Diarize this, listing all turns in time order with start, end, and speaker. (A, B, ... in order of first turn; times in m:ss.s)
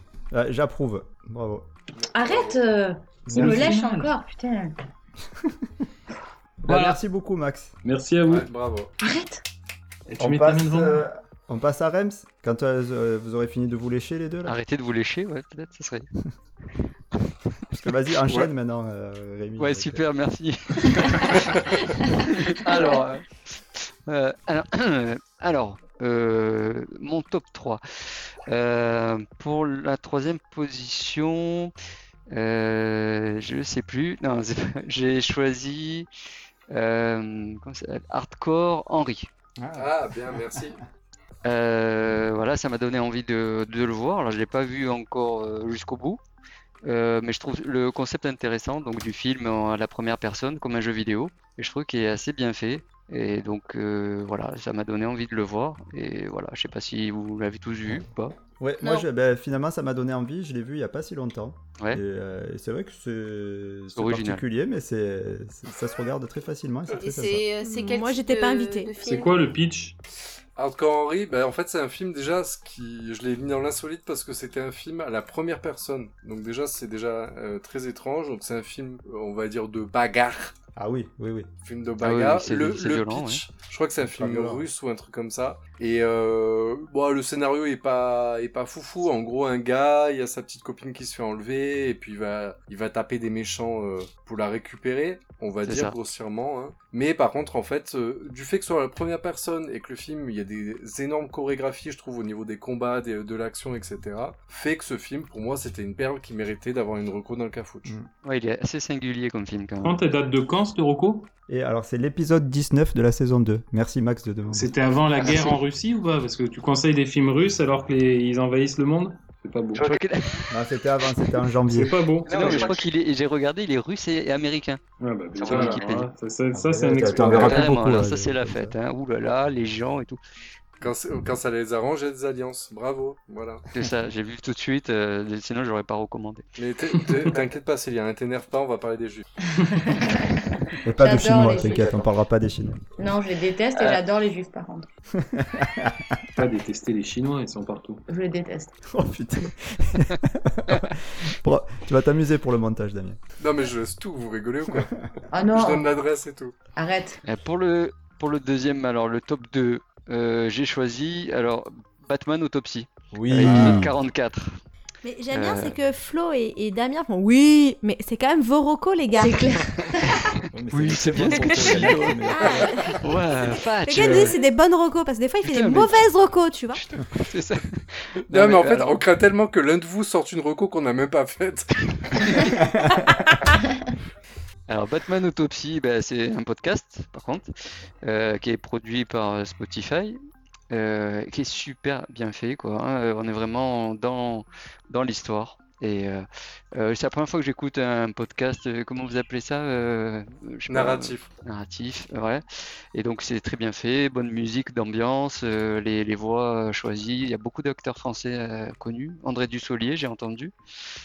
0:00.3-0:01.7 A
0:02.0-0:02.6 B
0:02.1-0:04.8 C
0:03.3-0:04.1 D
0:06.6-0:07.7 A
0:06.7-0:07.0 D
0:07.8-0:08.5 D
0:08.2-0:08.9 B
0:09.0-0:09.4 C
0:10.1-0:11.0 D
0:10.2-0:14.6 A
0:14.4-0:16.1 E
0:17.7-0:20.0 A
0:19.6-0:21.5 E
0:22.1-0:27.8 E
0:28.5-0:31.7 E
0:32.3-0:36.1 E
0:36.7-0:39.3 E
0:39.6-0:40.7 A
0:39.7-0:40.8 B
0:41.4-0:46.2 E
0:46.8-0:58.3 E
0:58.6-1:07.5 A
1:03.9-1:04.4 E
1:06.9-1:09.4 F
1:07.6-1:08.9 G
1:09.0-1:10.0 D
1:10.6-1:20.5 B
1:20.8-1:21.5 A
1:21.6-1:47.9 B
1:22.0-1:23.4 E
1:24.0-1:24.7 A
1:35.6-1:35.9 E
1:48.2-1:50.0 E
1:49.8-1:51.3 D
1:51.5-1:54.7 A
1:54.5-1:59.9 D
1:55.2-1:55.6 E
1:59.7-2:00.5 E
2:00.5-2:02.0 A
2:01.6-2:02.7 D
2:02.2-2:04.8 E
2:05.0-2:07.7 D
2:05.4-2:06.1 E
2:06.5-2:08.8 A
2:07.2-2:10.2 E
2:10.8-2:13.7 B
2:13.7-2:16.4 E
2:16.6-2:19.3 B
2:17.0-2:17.3 D
2:19.7-2:20.4 C
2:20.8-2:22.8 A
2:21.0-2:22.0 C
2:23.0-2:24.9 C
2:25.1-2:26.1 A
2:26.4-2:28.0 D
2:28.1-2:28.8 C
2:28.9-2:33.2 A
2:33.4-2:36.6 B
2:35.3-2:35.9 C
2:36.8-2:37.2 C
2:37.2-2:44.5 E
2:43.1-2:43.9 A
2:43.5-2:43.8 B
2:45.0-2:49.6 G
2:45.3-2:45.8 E
2:49.2-2:49.6 C
2:49.8-2:52.3 E
2:50.5-2:53.0 A
2:52.3-2:53.0 G
2:53.0-2:54.4 E
2:53.8-2:56.8 G
2:55.4-2:56.1 E
2:56.7-2:59.0 E
2:58.3-3:02.4 B
3:02.6-3:03.0 A
3:04.7-3:07.5 E
3:08.0-3:10.2 E
3:10.7-3:30.5 E
3:20.7-3:21.3 B